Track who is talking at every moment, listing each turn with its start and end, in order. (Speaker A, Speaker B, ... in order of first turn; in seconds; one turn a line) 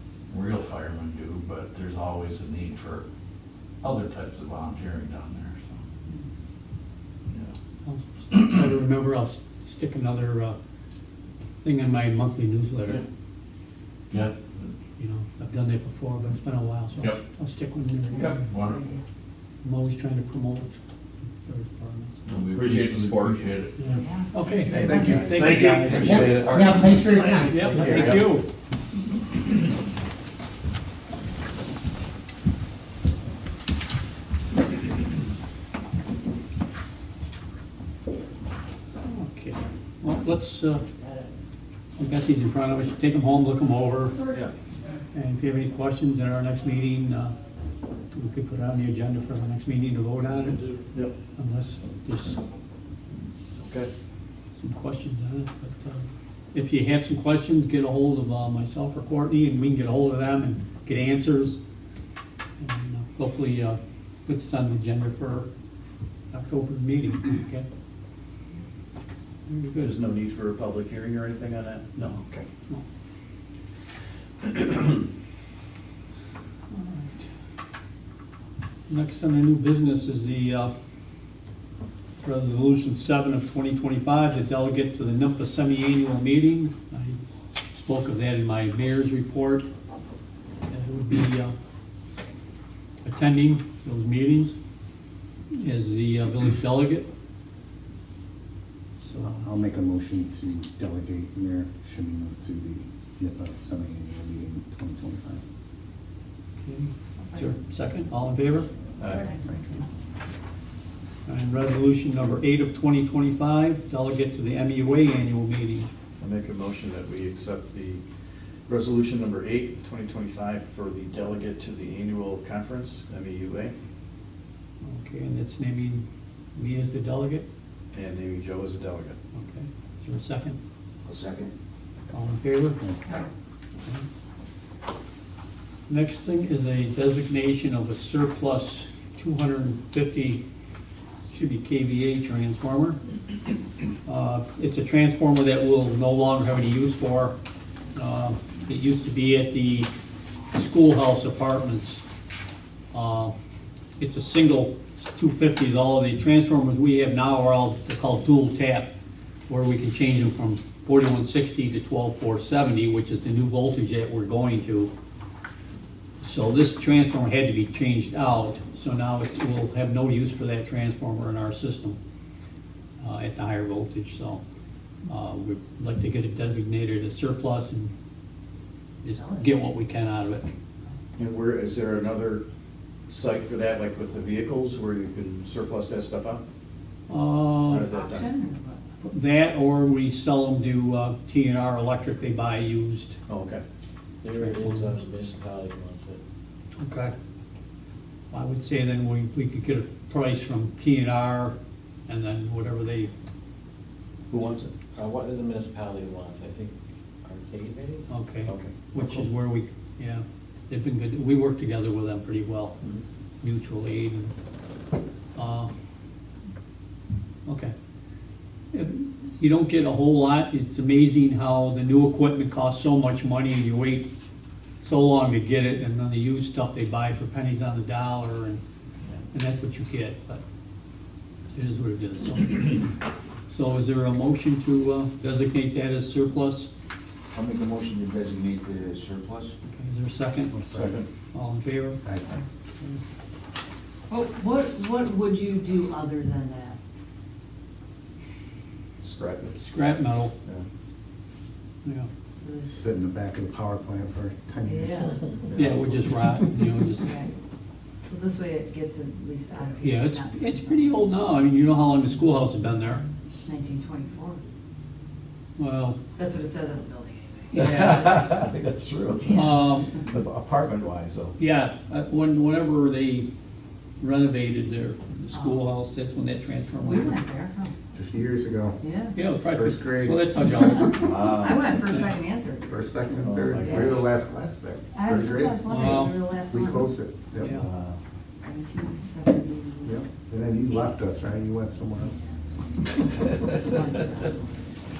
Speaker A: 0.3-3.0
Speaker A: 3.8-5.8
Speaker A: 7.3-7.5
Speaker B: 7.8-10.6
Speaker B: 11.6-13.0
Speaker A: 14.1-14.7
Speaker B: 15.0-18.4
Speaker A: 18.1-18.8
Speaker B: 19.6-20.8
Speaker B: 21.4-22.2
Speaker A: 22.2-23.7
Speaker B: 23.8-26.4
Speaker C: 24.0-25.2
Speaker D: 24.7-28.2
Speaker E: 24.9-25.2
Speaker A: 25.3-28.0
Speaker B: 27.4-28.4
Speaker B: 39.0-40.8
Speaker B: 42.0-44.2
Speaker B: 45.1-47.3
Speaker B: 48.1-50.7
Speaker B: 51.4-52.4
Speaker D: 53.6-53.9
Speaker B: 54.5-61.6
Speaker B: 62.6-65.5
Speaker B: 66.3-67.7
Speaker B: 69.5-69.9
Speaker D: 69.7-72.4
Speaker B: 72.0-72.8
Speaker D: 74.4-74.9
Speaker B: 76.7-77.3
Speaker B: 78.9-80.7
Speaker B: 82.2-87.2
Speaker B: 87.7-89.7
Speaker B: 90.7-91.5
Speaker B: 93.0-94.6
Speaker B: 95.5-97.1
Speaker B: 99.0-99.4
Speaker E: 99.2-105.4
Speaker B: 106.6-108.7
Speaker C: 107.2-107.5
Speaker D: 109.0-109.3
Speaker C: 109.0-109.8
Speaker B: 111.2-115.9
Speaker D: 116.2-118.0
Speaker D: 118.7-123.7
Speaker B: 124.8-127.5
Speaker D: 127.9-129.2
Speaker B: 129.3-130.6
Speaker F: 131.0-131.5
Speaker B: 132.1-133.0
Speaker B: 135.9-140.4
Speaker B: 141.3-143.0
Speaker B: 144.1-147.3
Speaker B: 147.9-149.9
Speaker B: 150.5-152.0
Speaker B: 152.9-153.3
Speaker B: 154.0-158.9
Speaker B: 159.5-164.9
Speaker B: 166.2-172.0
Speaker B: 173.0-174.4
Speaker B: 175.1-177.9
Speaker B: 179.0-180.5
Speaker D: 181.2-182.4
Speaker D: 183.1-186.4
Speaker B: 187.1-187.9
Speaker D: 187.7-188.3
Speaker C: 187.9-188.8
Speaker B: 189.0-193.2
Speaker D: 193.3-193.6
Speaker G: 194.2-196.2
Speaker B: 194.3-195.0
Speaker B: 196.8-197.1
Speaker B: 198.3-201.5
Speaker B: 202.1-203.1
Speaker D: 204.3-204.7
Speaker G: 204.9-206.7
Speaker G: 207.2-208.5
Speaker B: 208.1-212.8
Speaker D: 208.5-209.3
Speaker B: 213.4-214.3
Speaker B: 215.3-215.7
Speaker B: 217.4-217.7
Speaker B: 218.7-224.1
Speaker B: 224.8-228.6
Speaker B: 229.3-230.4
Speaker B: 231.5-232.9
Speaker B: 233.5-236.7
Speaker F: 237.3-239.5
Speaker B: 239.7-240.5
Speaker E: 240.5-241.0
Speaker D: 240.7-241.1
Speaker B: 241.3-242.0
Speaker E: 242.0-242.4
Speaker C: 244.1-246.8
Speaker D: 249.0-249.6
Speaker B: 249.5-250.3
Speaker C: 252.4-252.7
Speaker E: 252.6-255.9
Speaker C: 254.6-255.2
Speaker B: 255.5-257.1
Speaker C: 257.0-257.3
Speaker C: 258.0-260.9
Speaker B: 259.8-263.0
Speaker C: 263.4-264.4
Speaker B: 265.6-266.0
Speaker C: 266.1-268.4
Speaker D: 267.5-271.3
Speaker C: 269.2-269.6
Speaker B: 269.3-269.9
Speaker B: 271.4-273.3
Speaker B: 274.0-277.2
Speaker C: 275.3-275.6
Speaker C: 276.8-277.7
Speaker E: 277.9-278.8
Speaker C: 278.8-279.2
Speaker B: 279.1-281.3
Speaker E: 279.4-280.3
Speaker D: 280.9-281.7
Speaker C: 281.3-282.7
Speaker E: 282.6-285.6
Speaker D: 283.2-284.0
Speaker C: 283.6-284.0
Speaker C: 284.9-286.9
Speaker B: 285.7-286.2
Speaker E: 286.4-287.7
Speaker B: 287.4-287.7
Speaker D: 287.5-288.0
Speaker C: 288.4-290.0
Speaker E: 289.8-292.1
Speaker C: 293.2-294.7